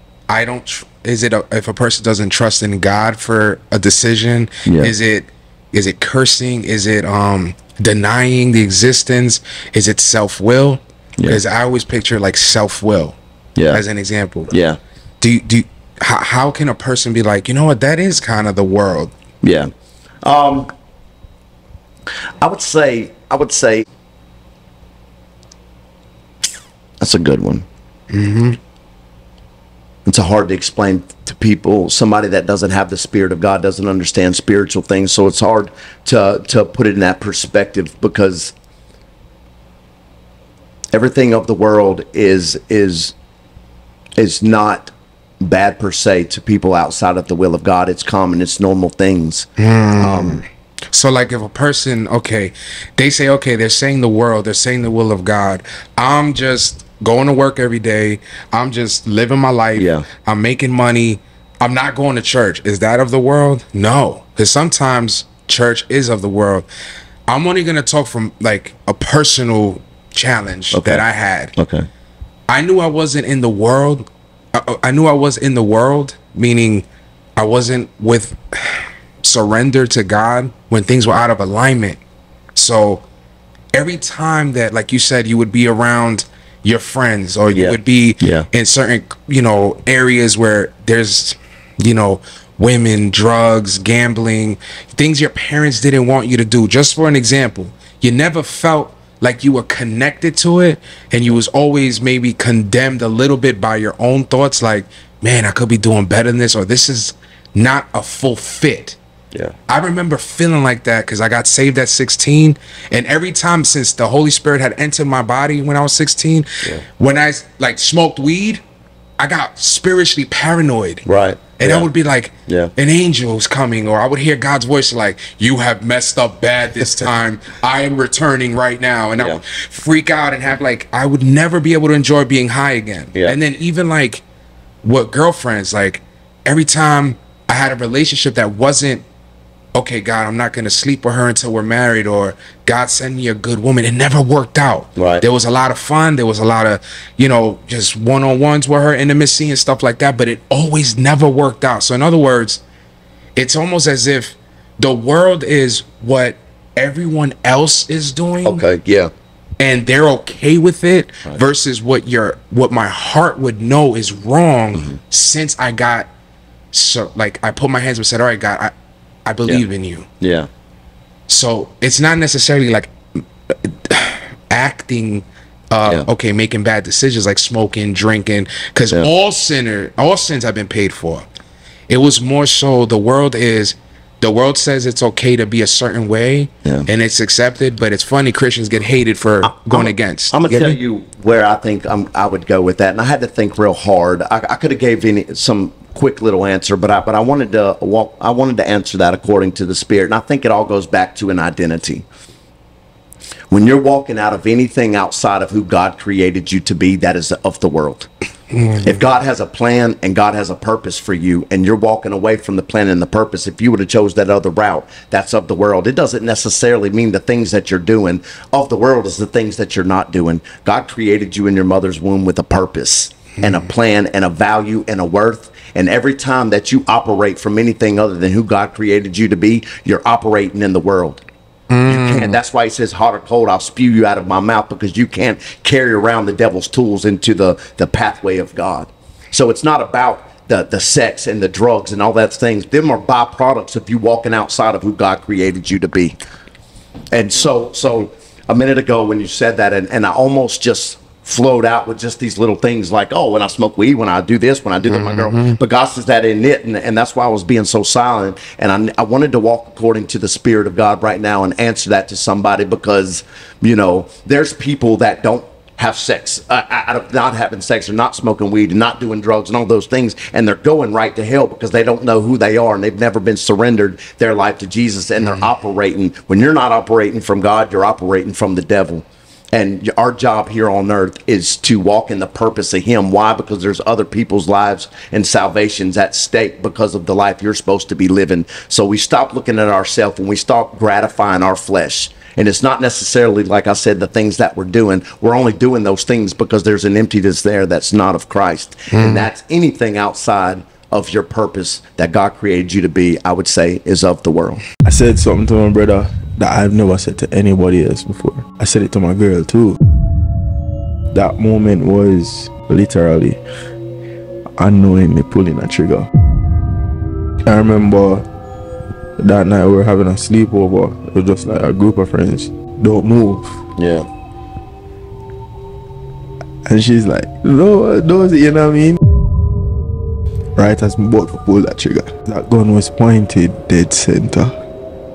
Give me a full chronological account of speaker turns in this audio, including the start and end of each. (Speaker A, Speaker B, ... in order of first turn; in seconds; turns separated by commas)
Speaker A: 0.3-13.2, Speaker B: 4.7-4.9, Speaker B: 13.6-13.8, Speaker A: 13.7-14.5, Speaker B: 14.5-14.8, Speaker A: 15.2-19.1, Speaker B: 19.4-19.7, Speaker B: 20.2-20.7, Speaker B: 22.4-23.9, Speaker B: 27.0-27.6, Speaker A: 28.1-28.6, Speaker B: 30.1-38.5, Speaker B: 40.9-43.1, Speaker B: 44.2-49.5, Speaker A: 49.6-66.7, Speaker B: 50.0-50.4, Speaker B: 59.8-60.1, Speaker A: 67.3-71.5, Speaker B: 70.7-71.0, Speaker B: 71.6-71.9, Speaker A: 72.5-76.8, Speaker A: 77.4-82.0, Speaker A: 82.5-83.0, Speaker A: 83.8-109.0, Speaker B: 87.5-88.5, Speaker A: 109.7-118.6, Speaker A: 119.2-121.1, Speaker B: 121.1-121.9, Speaker A: 121.6-134.2, Speaker B: 122.5-122.7, Speaker A: 134.8-139.1, Speaker A: 139.8-152.6, Speaker B: 145.0-145.2, Speaker A: 153.4-158.6, Speaker B: 158.4-159.1, Speaker A: 159.6-166.1, Speaker A: 166.7-168.7, Speaker A: 169.3-170.1, Speaker B: 170.2-170.5, Speaker A: 171.3-172.9, Speaker A: 173.6-181.2, Speaker A: 181.9-190.8, Speaker B: 189.4-202.1, Speaker B: 203.5-208.1, Speaker A: 208.5-209.0, Speaker B: 208.8-231.2, Speaker A: 231.7-232.4, Speaker B: 231.9-246.2, Speaker B: 247.1-304.6, Speaker A: 254.9-255.6, Speaker A: 275.2-275.5, Speaker A: 298.9-299.3, Speaker C: 304.8-309.8, Speaker C: 311.1-313.4, Speaker C: 314.6-316.1, Speaker C: 317.5-318.3, Speaker C: 319.2-323.6, Speaker B: 323.8-324.1, Speaker C: 326.7-329.0, Speaker C: 330.6-334.6